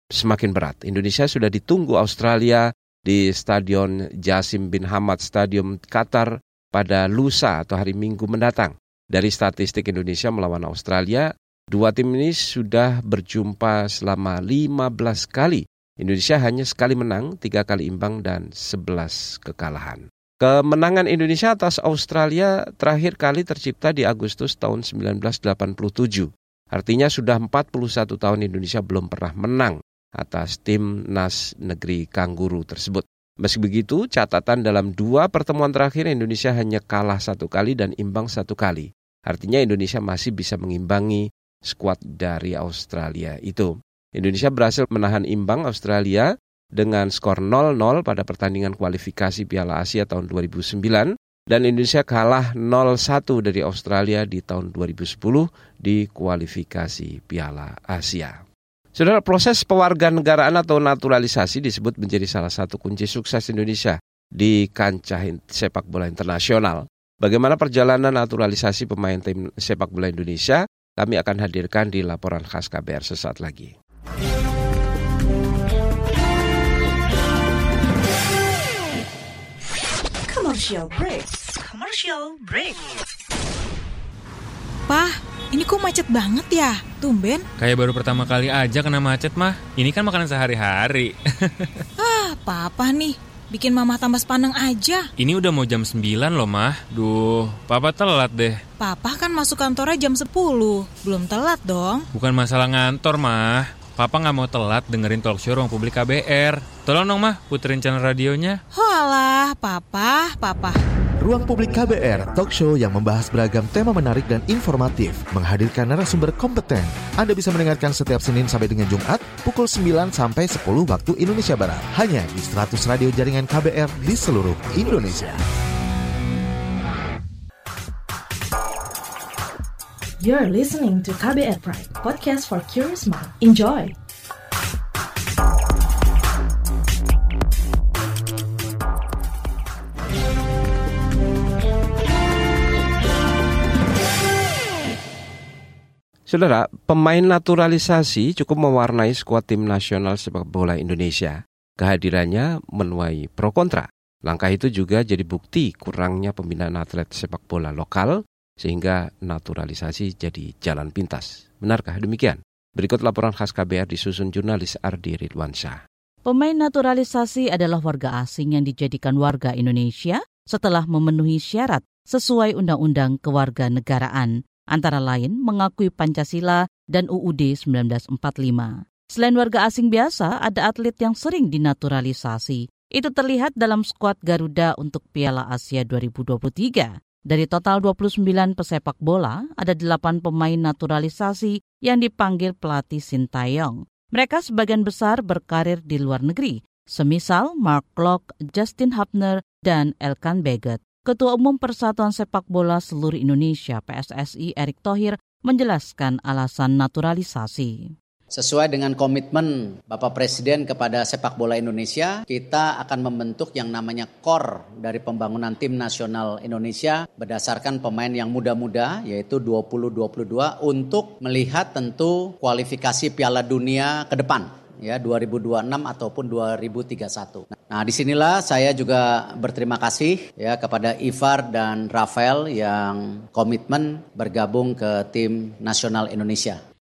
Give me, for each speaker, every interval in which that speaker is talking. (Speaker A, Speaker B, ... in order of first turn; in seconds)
Speaker A: 0.2-58.4, 59.0-73.7, 146.3-165.8
Speaker B: 80.3-82.8, 84.9-87.5, 92.0-95.1, 98.8-102.1, 108.7-110.8
Speaker C: 87.6-91.7, 95.2-98.6, 102.1-108.6
Speaker D: 111.2-125.4
Speaker E: 130.2-133.9
Speaker F: 166.2-207.9
Speaker G: 208.3-236.6